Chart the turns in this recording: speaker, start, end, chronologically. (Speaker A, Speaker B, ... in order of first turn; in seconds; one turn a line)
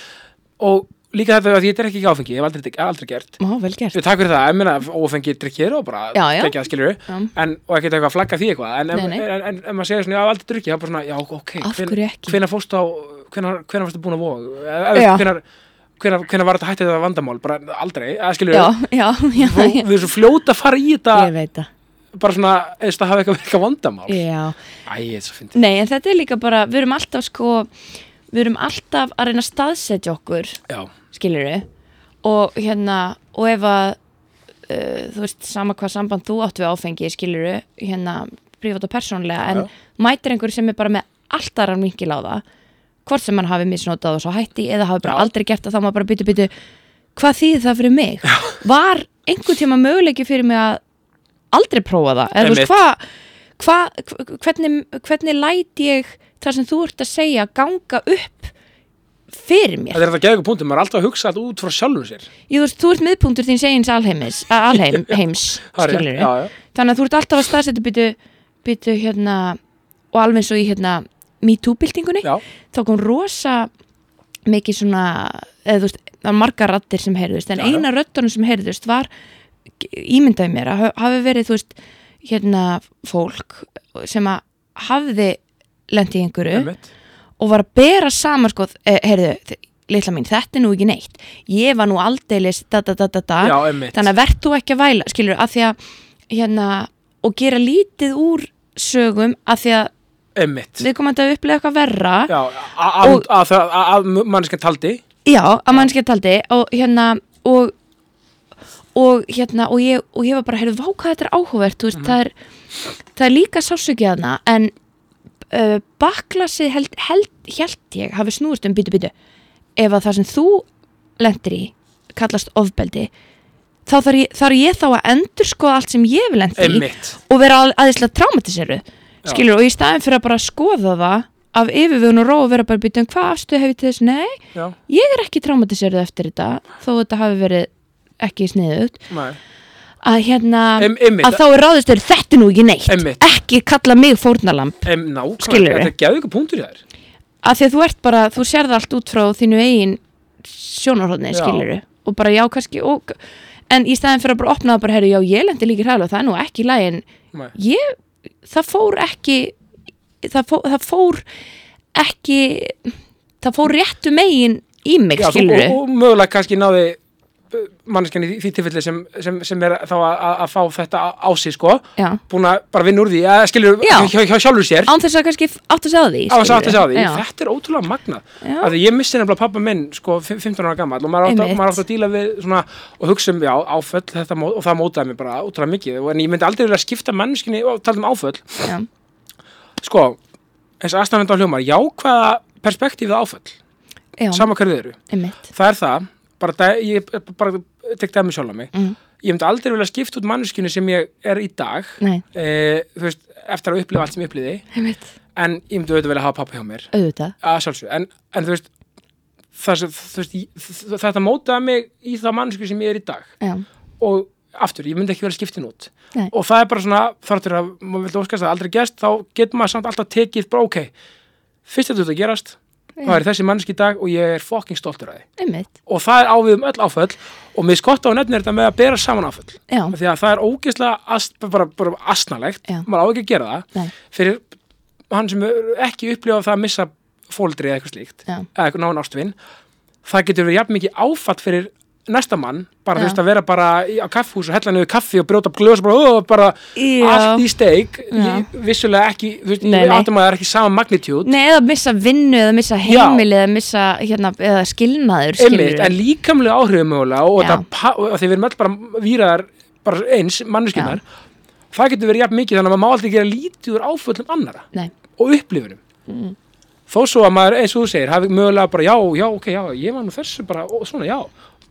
Speaker A: 0.6-3.4
Speaker B: 3.4-4.0
Speaker A: 3.9-15.4
Speaker B: 6.1-6.6
Speaker B: 8.9-9.2
Speaker B: 11.6-12.4
Speaker B: 14.9-15.3
Speaker A: 16.0-18.7
Speaker B: 18.5-19.9
Speaker A: 19.4-21.3
Speaker B: 21.1-21.7
Speaker A: 22.1-24.2
Speaker B: 24.1-24.6
Speaker A: 24.9-25.6
Speaker B: 25.5-27.7
Speaker B: 28.3-30.6
Speaker B: 31.1-31.6
Speaker B: 32.2-34.0
Speaker B: 34.7-42.4
Speaker B: 43.1-46.5
Speaker B: 47.2-50.8
Speaker A: 48.3-48.5
Speaker B: 51.5-53.0
Speaker A: 52.4-52.7
Speaker B: 53.6-58.5
Speaker B: 59.3-60.0
Speaker A: 59.9-62.3
Speaker B: 62.5-69.6
Speaker A: 65.7-66.5
Speaker B: 70.1-73.7
Speaker B: 74.5-79.1
Speaker A: 77.6-77.8
Speaker B: 79.8-86.7
Speaker A: 86.5-86.9
Speaker B: 87.4-95.8
Speaker A: 93.4-94.1
Speaker B: 96.3-99.9
Speaker A: 100.4-100.9
Speaker B: 100.8-102.3
Speaker A: 102.3-105.0
Speaker B: 105.3-107.7
Speaker B: 109.0-112.3
Speaker B: 113.2-114.7
Speaker B: 115.5-119.1
Speaker B: 119.8-120.7
Speaker B: 121.2-123.1
Speaker B: 123.9-139.0
Speaker A: 126.6-127.2
Speaker A: 139.1-139.4
Speaker B: 140.0-144.9
Speaker A: 140.8-141.4
Speaker A: 142.9-143.2
Speaker A: 144.8-146.8
Speaker B: 145.4-145.9
Speaker B: 147.4-157.0
Speaker A: 151.3-151.7
Speaker B: 157.6-159.6
Speaker B: 160.2-161.2
Speaker B: 161.9-165.8
Speaker A: 165.2-167.0
Speaker A: 167.5-174.9
Speaker B: 173.8-174.1
Speaker B: 174.9-177.2
Speaker A: 176.3-188.7
Speaker B: 178.4-178.7
Speaker B: 181.2-181.8
Speaker A: 189.8-190.2
Speaker A: 190.8-193.6
Speaker B: 194.2-194.5
Speaker A: 194.3-204.6
Speaker B: 195.1-195.4
Speaker B: 204.7-205.0
Speaker A: 205.4-206.9
Speaker B: 206.9-207.3
Speaker A: 207.4-208.7
Speaker A: 209.6-213.3
Speaker A: 214.0-220.9
Speaker A: 221.7-225.3
Speaker B: 225.4-225.7
Speaker A: 225.9-234.4
Speaker B: 229.7-229.9
Speaker A: 235.1-239.3
Speaker A: 240.1-251.3
Speaker B: 246.8-247.5
Speaker B: 248.1-248.5
Speaker B: 249.6-250.1
Speaker B: 251.2-255.9
Speaker A: 252.9-253.2
Speaker A: 255.4-261.0
Speaker B: 257.4-257.6
Speaker A: 261.7-265.8
Speaker B: 266.1-266.4
Speaker A: 266.9-271.3